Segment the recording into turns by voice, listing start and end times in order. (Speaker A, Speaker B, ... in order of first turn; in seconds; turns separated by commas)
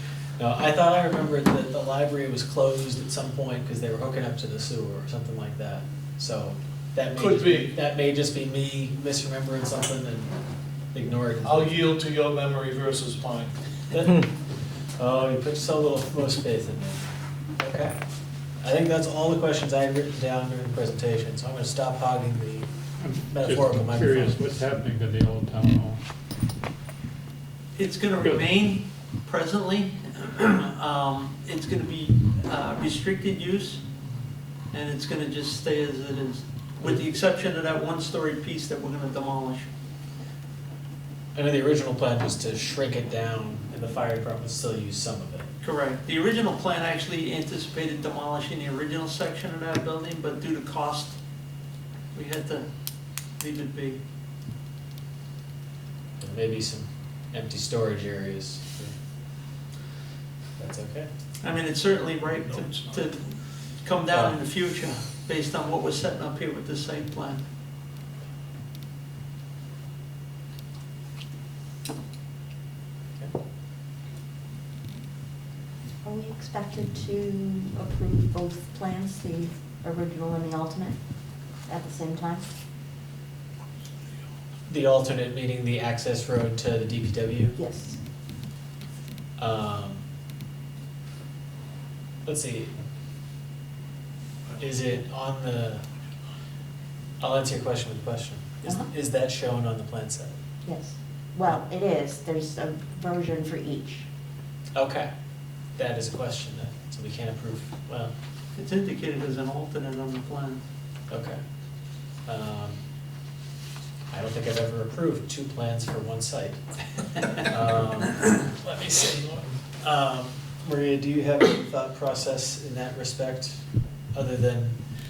Speaker A: 0.4-10.3, Speaker B: 7.2-7.7, Speaker A: 10.9-11.8, Speaker B: 11.4-13.5, Speaker A: 13.9-14.3, Speaker A: 15.0-17.9, Speaker A: 18.6-22.7, Speaker C: 23.0-26.0, Speaker A: 23.2-24.4, Speaker D: 27.8-33.8, Speaker C: 28.2-28.4, Speaker D: 34.7-39.7, Speaker A: 41.3-45.5, Speaker D: 45.6-51.2, Speaker D: 52.1-52.7, Speaker D: 53.4-54.0, Speaker A: 56.2-58.9, Speaker A: 60.6-61.1, Speaker D: 61.4-67.4, Speaker E: 76.0-81.0, Speaker E: 81.7-82.4, Speaker A: 84.7-87.6, Speaker E: 87.6-88.0, Speaker A: 89.4-90.0, Speaker A: 92.2-92.7, Speaker A: 94.6-95.8, Speaker A: 97.2-100.3, Speaker E: 100.6-104.1, Speaker A: 104.8-105.1, Speaker A: 105.8-108.1, Speaker D: 108.5-110.6, Speaker A: 111.1-111.4, Speaker A: 112.2-112.8, Speaker A: 114.1-116.6, Speaker A: 117.4-124.8